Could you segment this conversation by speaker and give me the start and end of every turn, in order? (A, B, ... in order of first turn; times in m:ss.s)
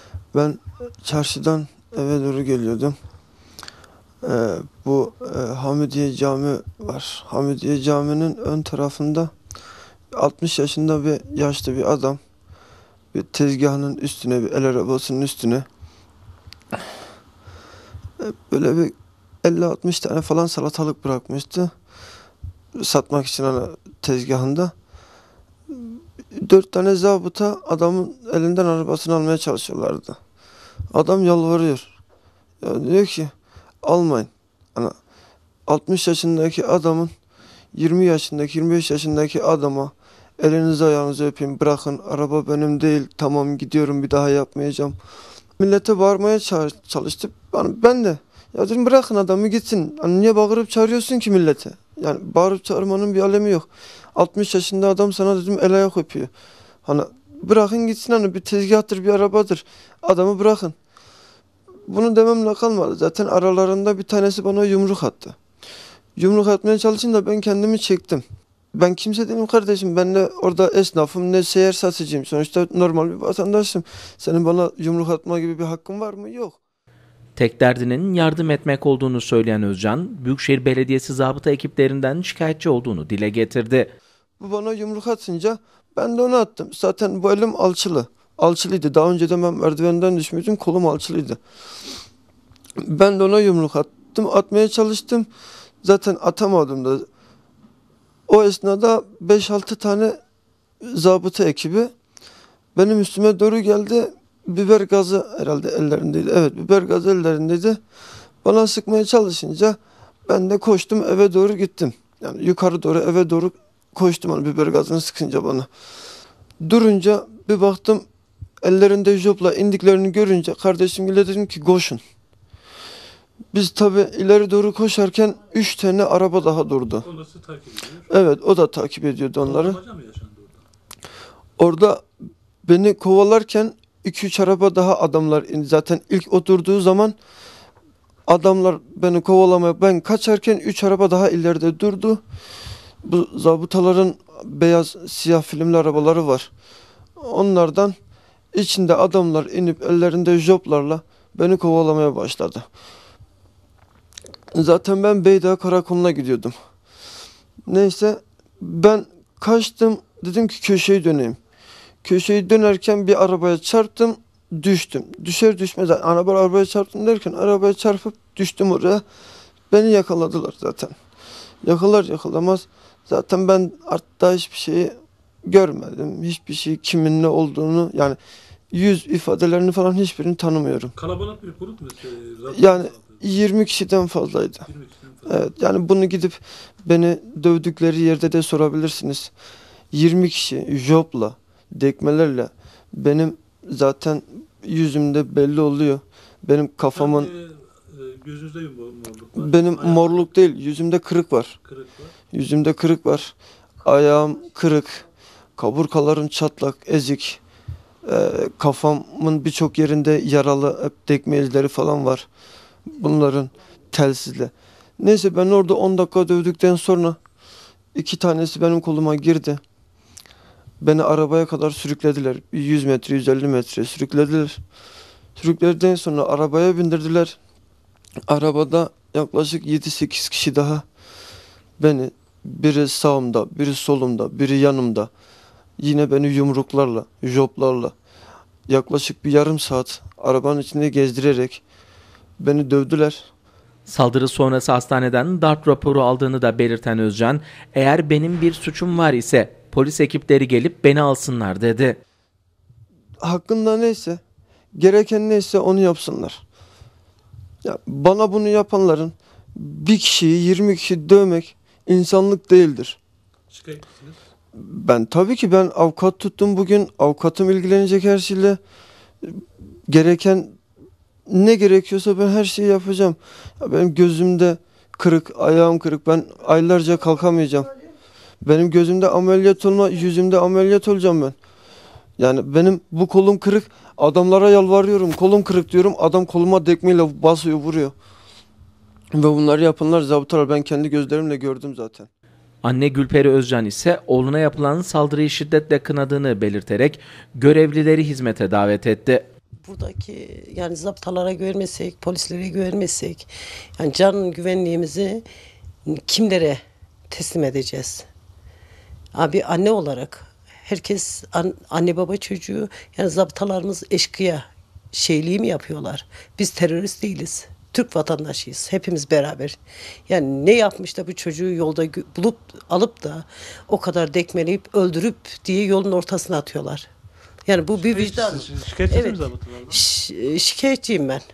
0:00.3-0:03.0 A
0:04.2-0:09.3 A
0:10.1-0:12.2 A
0:13.1-0:15.7 A
0:18.2-0:21.7 A
0:22.7-0:24.7 A
0:25.7-0:30.2 A
0:30.9-0:31.9 A
0:32.6-0:35.0 A
0:35.7-0:37.1 A
0:37.7-0:45.0 A
0:45.6-0:56.3 A
0:56.8-1:00.8 A
1:01.9-1:05.4 A
1:06.2-1:16.6 A
1:17.4-1:23.9 B
1:24.4-1:31.4 A
1:32.8-1:35.3 A
1:35.8-1:37.1 A
1:38.3-1:40.2 A
1:40.8-1:41.9 A
1:42.8-1:47.8 A
1:48.4-1:55.7 A
1:56.6-1:58.1 A
1:58.6-2:02.0 A
2:03.5-2:07.0 A
2:07.0-2:08.1 C
2:08.1-2:09.8 A
2:09.4-2:10.6 C
2:11.6-2:12.0 A
2:12.6-2:17.2 A
2:18.3-2:22.2 A
2:23.0-2:26.5 A
2:27.2-2:28.0 A
2:28.5-2:32.7 A
2:34.5-2:36.5 A
2:37.7-2:41.4 A
2:42.0-2:49.0 A
2:49.7-2:50.9 A
2:51.6-2:58.2 A
2:58.7-3:00.9 A
3:00.9-3:03.2 C
3:02.5-3:04.7 A
3:04.7-3:05.5 C
3:05.2-3:09.3 A
3:09.9-3:17.3 A
3:16.9-3:20.3 C
3:19.4-3:21.6 A
3:21.6-3:22.1 C
3:22.3-3:23.3 A
3:23.8-3:25.0 A
3:25.6-3:27.4 A
3:28.0-3:32.3 A
3:32.9-3:37.2 A
3:37.9-3:39.6 A
3:40.8-3:44.6 A
3:45.4-3:47.4 A
3:48.3-3:50.9 A
3:51.8-3:55.1 A
3:55.8-3:57.9 A
3:58.7-4:01.6 A
4:02.4-4:03.3 A
4:03.9-4:12.0 B
4:13.2-4:14.2 A
4:14.7-4:16.4 A
4:17.6-4:23.0 A
4:23.5-4:24.2 C
4:24.6-4:28.6 A
4:29.2-4:30.6 A
4:31.3-4:37.7 A
4:38.4-4:41.4 A
4:42.2-4:47.9 A
4:49.1-4:52.1 A
4:52.6-4:59.2 B
4:59.6-5:05.2 D
5:05.9-5:08.1 D
5:09.1-5:26.9 D
5:27.4-5:31.2 D
5:27.8-5:29.8 C